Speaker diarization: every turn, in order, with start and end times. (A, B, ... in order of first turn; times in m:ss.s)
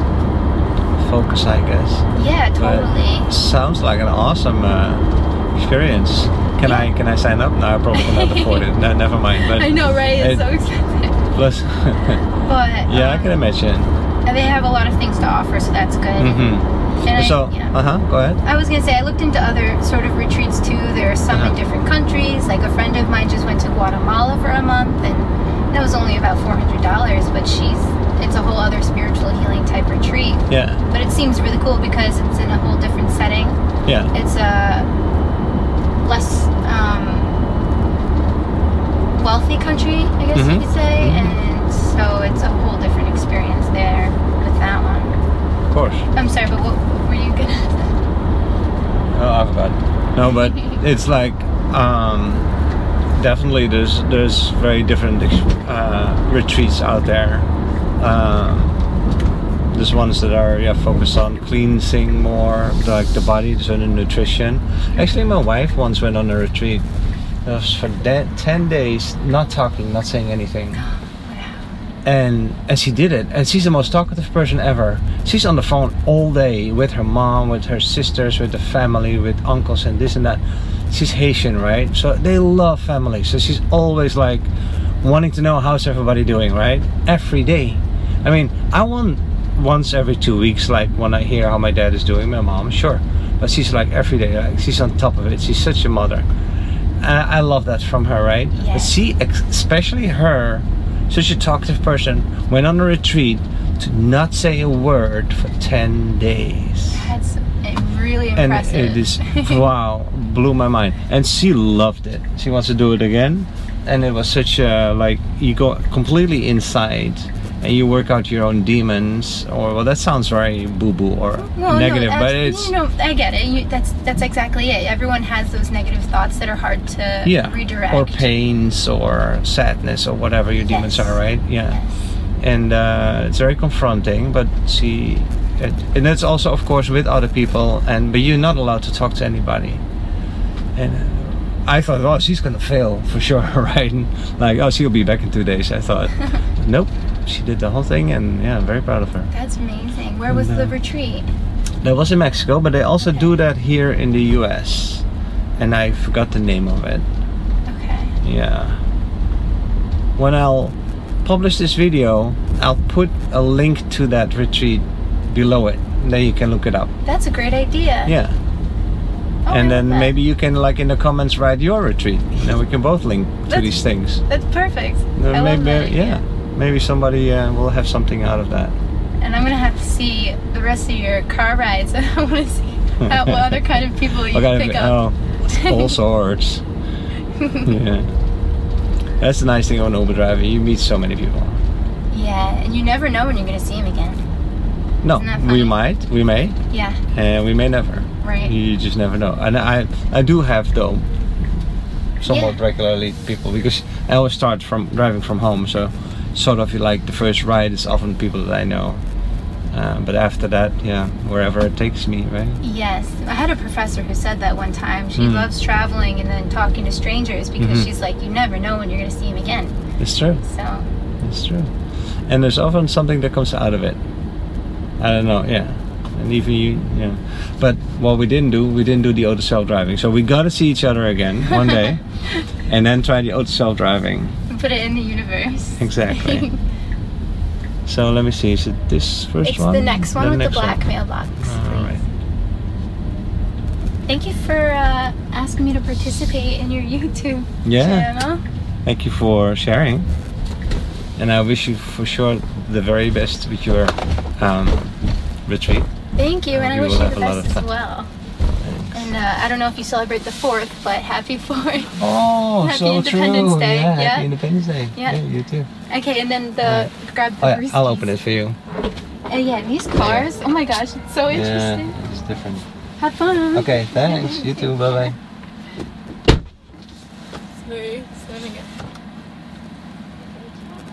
0:01.0-0:02.1 A
0:02.2-0:03.3 B
0:02.6-0:10.4 A
0:07.9-0:08.7 B
0:09.4-0:11.2 B
0:11.3-0:12.2 A
0:12.4-0:13.3 B
0:12.9-0:13.9 A
0:14.2-0:16.5 B
0:16.2-0:18.4 A
0:17.0-0:17.7 B
0:18.4-0:33.6 B
0:21.3-0:21.6 A
0:30.5-0:30.8 A
0:33.9-0:34.1 A
0:34.1-0:34.9 B
0:36.0-0:37.4 B
0:39.2-0:45.2 B
0:40.3-0:41.4 A
0:45.7-0:46.1 A
0:46.2-0:48.0 B
0:49.1-0:52.5 A
0:50.3-0:50.8 B
0:53.1-0:57.5 A
0:58.0-0:58.8 A
0:59.7-1:06.8 A
1:07.4-1:10.8 A
1:10.7-1:11.7 B
1:12.0-1:36.3 A
1:37.0-1:47.0 A
1:38.5-1:38.9 B
1:46.9-1:49.6 B
1:48.4-2:02.7 A
2:01.4-2:08.3 B
2:07.2-2:11.8 A
2:10.6-2:11.2 B
2:12.4-2:19.8 A
2:20.8-2:29.3 A
2:29.3-2:31.3 B
2:30.3-2:30.8 A
2:31.8-2:35.0 A
2:35.6-2:37.1 A
2:37.7-2:38.2 B
2:38.2-2:38.8 A
2:40.2-2:46.9 A
2:47.0-2:48.1 B
2:48.1-2:48.4 A
2:49.5-2:50.1 B
2:49.5-2:54.2 A
2:53.5-2:56.2 B
2:55.2-2:58.8 A
2:59.2-3:06.0 B
3:03.0-3:03.6 A
3:04.3-3:06.6 A
3:07.4-3:07.7 B
3:07.6-3:08.1 A
3:09.2-3:11.6 A
3:12.1-3:14.2 B
3:15.0-3:16.6 A
3:15.1-3:15.7 B
3:16.7-3:17.0 B
3:17.1-3:21.1 A
3:18.2-3:18.5 B
3:22.2-3:29.0 A
3:22.3-3:22.6 B
3:29.7-3:32.6 A
3:32.6-3:39.8 B
3:35.2-3:35.5 A
3:37.6-3:37.9 A
3:40.0-3:40.4 A
3:40.4-3:40.9 B
3:41.2-3:41.7 A
3:42.3-3:44.0 A
3:45.0-3:52.0 A
3:51.5-3:51.8 B
3:52.7-3:54.4 A
3:54.5-3:56.6 B
3:55.8-3:56.5 A
3:57.9-4:00.8 A
3:59.4-4:01.9 B
4:01.4-4:02.1 A
4:04.1-4:08.4 B
4:07.6-4:08.1 A
4:08.9-4:10.1 A
4:11.2-4:15.9 A
4:16.2-4:18.1 B
4:16.5-4:17.6 A
4:18.6-4:19.1 A
4:18.9-4:22.0 B
4:22.0-4:25.7 A
4:22.6-4:24.3 B
4:25.0-4:25.2 B
4:25.9-4:28.1 B
4:26.6-4:28.6 A
4:29.3-4:32.0 B
4:30.0-4:30.3 A
4:31.3-4:32.7 A
4:33.0-4:35.1 B
4:33.5-4:35.2 A
4:37.6-4:38.7 B